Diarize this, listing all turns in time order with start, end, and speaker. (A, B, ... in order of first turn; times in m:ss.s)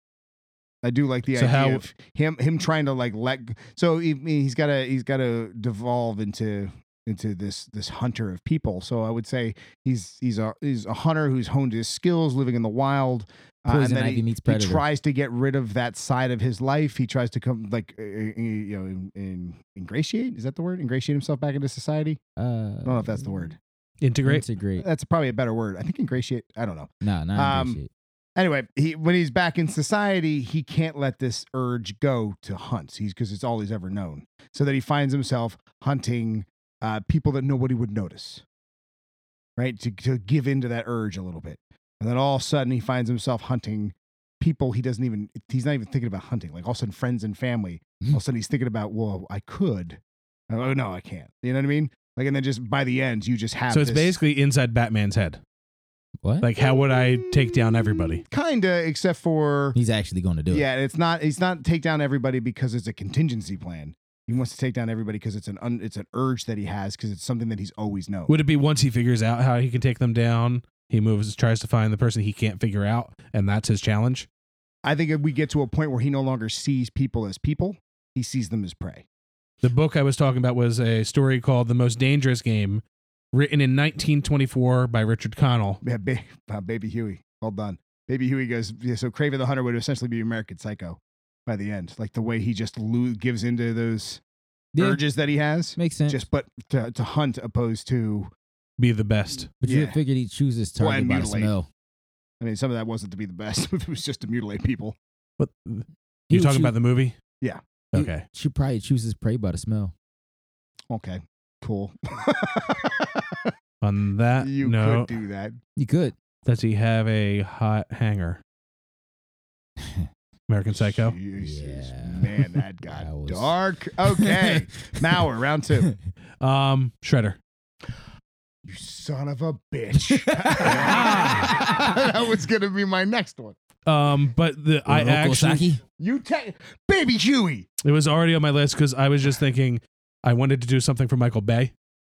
0:00.8-0:22.2 A
0:01.3-0:01.8 B
0:13.7-0:14.8 C
0:22.4-0:23.4 C
0:22.8-0:23.6 A
0:24.0-0:24.4 B
0:24.2-0:24.9 C
0:24.8-0:27.8 A
0:27.0-0:27.9 C
0:28.4-0:38.4 A
0:39.6-0:54.1 A
0:53.7-0:55.4 B
0:56.4-0:58.2 B
0:56.6-0:59.8 A
0:59.8-1:00.7 C
1:00.5-1:08.4 A
1:08.3-1:14.3 B
1:14.8-1:19.1 A
1:19.6-1:22.8 B
1:23.3-1:25.8 B
1:25.8-1:34.2 A
1:34.7-1:35.0 C
1:34.8-1:38.3 A
1:35.8-1:36.2 C
1:38.8-1:39.5 B
1:39.6-1:41.7 C
1:39.6-1:40.0 A
1:40.8-1:41.5 A
1:42.4-1:45.0 A
1:45.4-1:47.2 B
1:46.3-1:46.7 C
1:47.9-1:48.2 B
1:47.9-1:49.9 C
1:50.9-1:53.5 A
1:53.8-1:55.1 B
1:54.4-1:55.6 A
1:55.8-1:56.2 C
1:56.5-1:58.4 B
1:59.8-2:00.1 C
2:00.5-2:01.2 B
2:00.7-2:05.9 A
2:01.4-2:03.6 C
2:06.4-2:07.4 B
2:08.6-2:13.6 A
2:10.2-2:12.0 C
2:10.6-2:11.6 B
2:13.9-2:15.7 B
2:14.9-2:15.8 C
2:16.0-2:17.7 A
2:17.8-2:21.7 B